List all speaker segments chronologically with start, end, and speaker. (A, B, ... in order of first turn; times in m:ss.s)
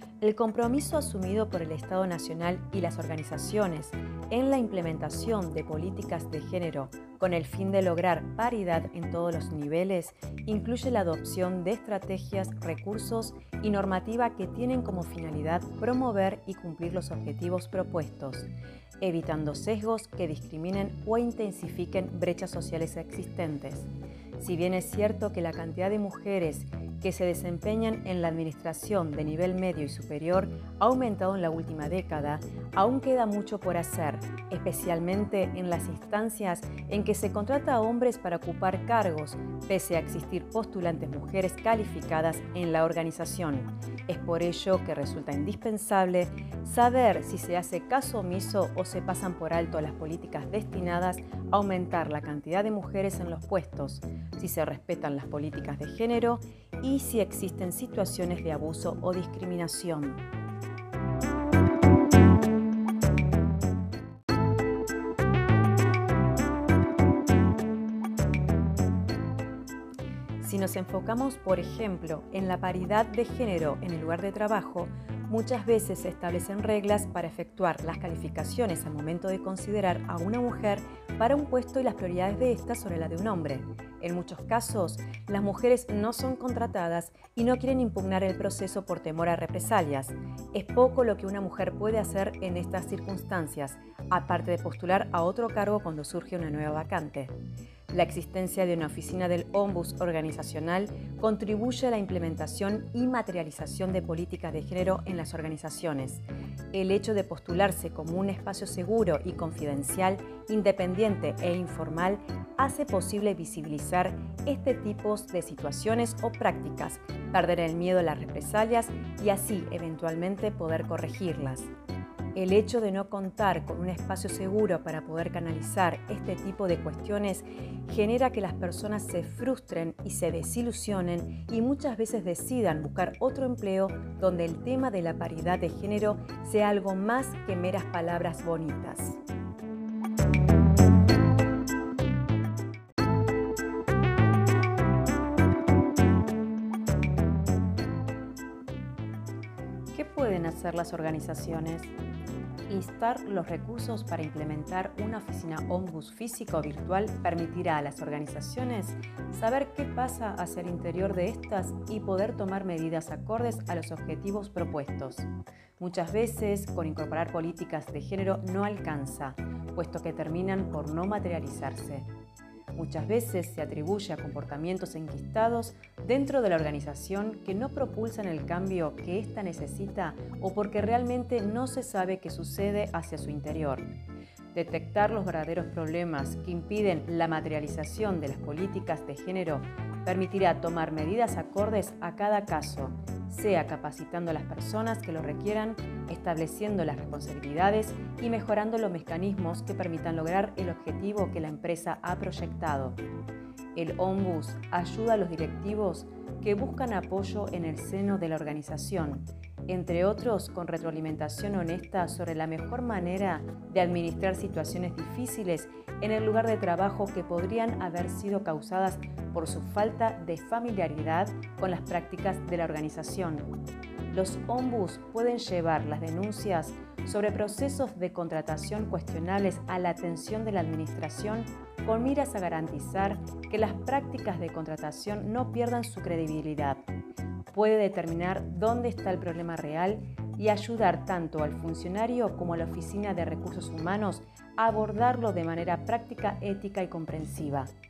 0:00.2-1:00.2 A
1:10.4-1:37.3 A
1:37.9-2:01.7 A
2:02.3-2:19.2 A
2:29.9-2:31.9 A
2:32.7-2:45.3 A
2:45.8-2:52.1 A
2:52.7-3:03.9 A
3:04.5-3:23.0 A
3:23.7-3:43.5 A
3:44.1-3:56.8 A
3:57.5-4:07.7 A